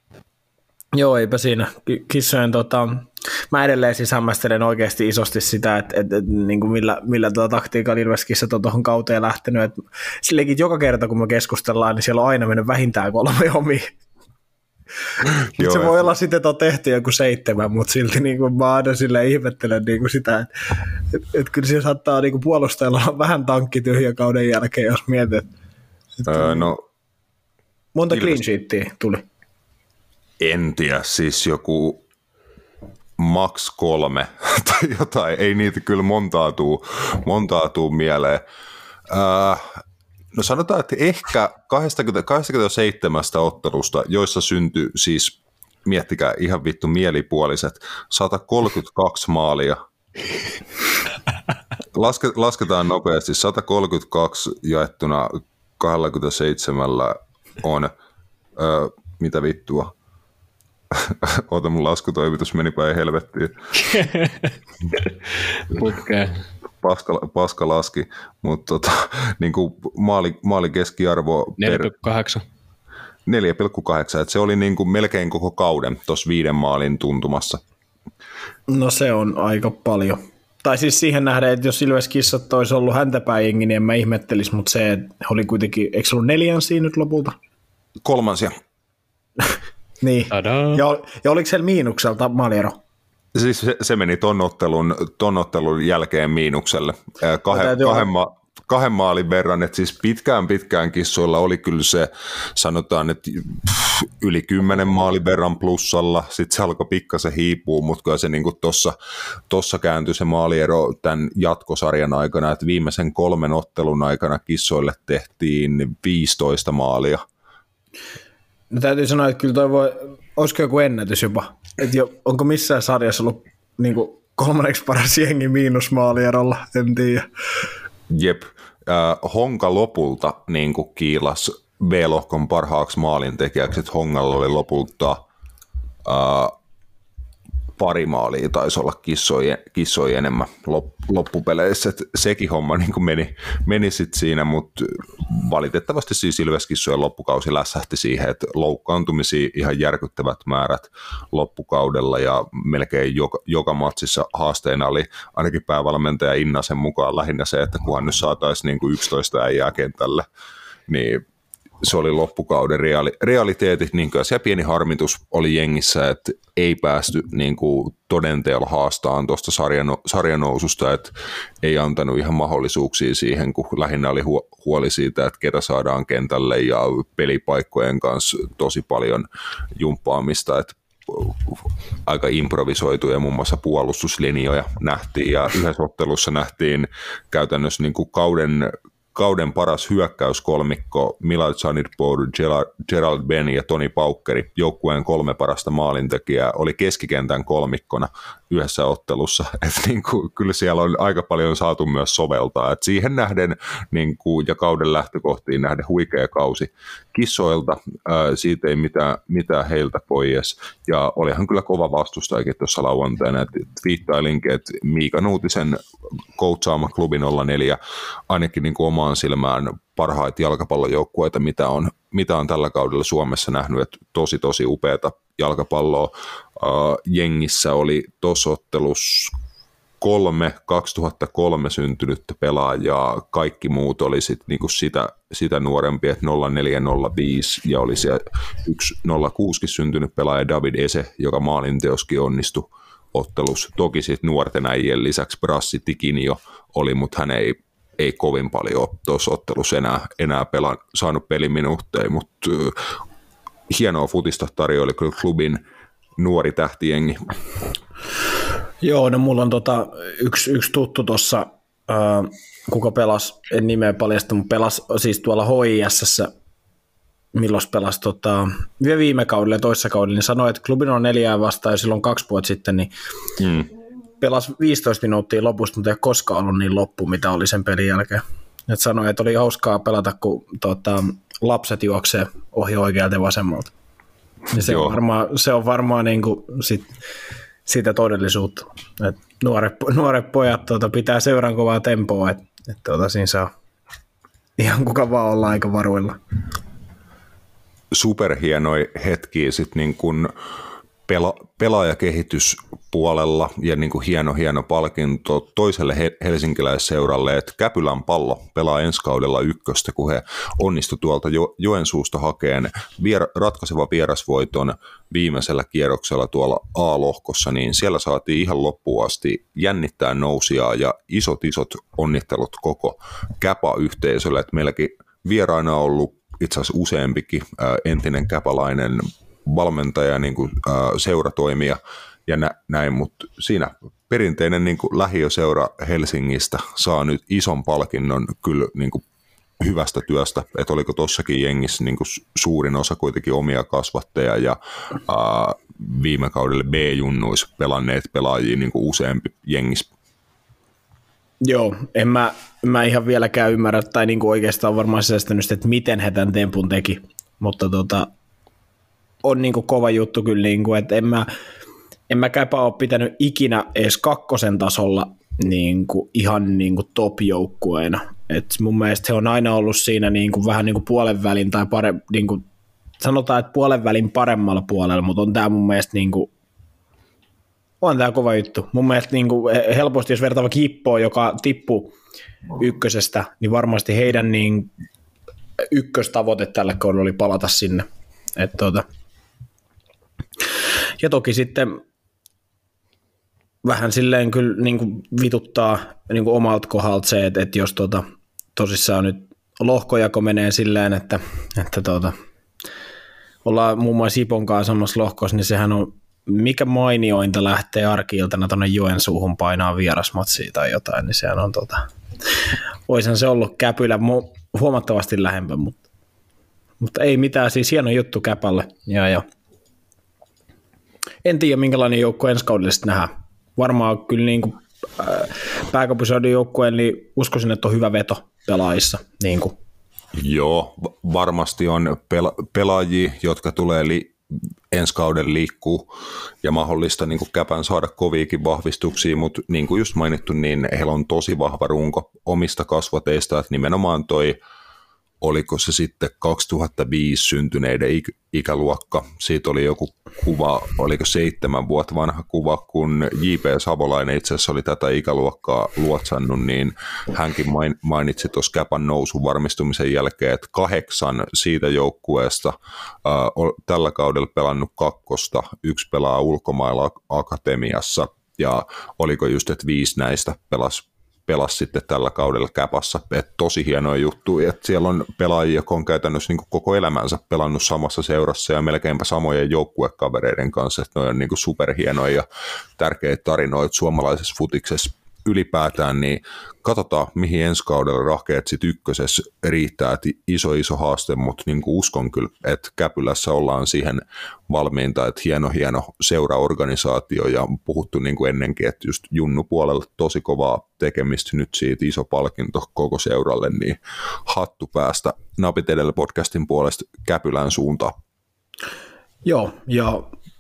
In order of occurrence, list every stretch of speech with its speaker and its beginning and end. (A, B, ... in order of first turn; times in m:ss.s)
0:00.9-0:13.9 A
0:15.5-0:15.9 B
0:15.6-0:25.5 A
0:26.2-0:26.7 A
0:26.2-0:26.8 B
0:27.9-0:29.2 A
0:30.4-0:32.0 B
0:33.2-0:38.4 B
0:39.1-0:39.8 B
0:40.3-0:49.8 B
0:51.9-0:57.9 B
0:58.6-0:59.9 B
1:00.9-1:03.7 B
1:05.7-1:06.4 C
1:06.8-1:11.9 B
1:11.6-1:12.4 C
1:13.2-1:17.6 B
1:18.7-1:27.4 A
1:28.0-1:28.6 B
1:30.0-1:32.8 A
1:30.3-1:30.8 C
1:33.3-1:48.9 B
1:37.5-1:38.1 A
1:49.5-1:57.2 B
1:58.7-2:07.3 A
2:08.1-2:15.2 B
2:16.0-2:16.5 B
2:17.8-2:40.2 B
2:40.9-2:41.2 B
2:41.8-3:35.8 B
3:36.3-3:49.3 B
3:50.0-4:12.8 B
4:13.7-4:15.6 B
4:16.2-4:17.2 B
4:18.8-4:26.3 A
4:27.3-4:32.9 A
4:33.4-4:33.7 B
4:34.2-4:43.7 A
4:44.5-4:46.9 A
4:44.5-4:45.0 B
4:47.6-4:53.5 A
4:54.6-4:56.2 A
4:57.9-5:00.3 B
5:01.1-5:39.0 B
5:39.6-5:49.9 B
5:51.4-5:58.1 A
5:59.2-6:01.3 A
6:02.1-6:12.4 A
6:13.0-6:16.3 A
6:17.8-6:21.9 A
6:22.6-6:24.7 A
6:25.7-6:28.8 A
6:31.0-6:31.8 A
6:33.6-6:42.1 A
6:43.4-6:51.9 A
6:52.8-6:55.8 A
6:56.8-6:59.2 A
7:01.2-7:09.6 A
7:10.1-7:14.2 B
7:14.7-7:15.9 B
7:16.4-7:24.4 B
7:25.2-8:02.2 B
8:02.8-8:27.9 B
8:29.2-8:30.1 A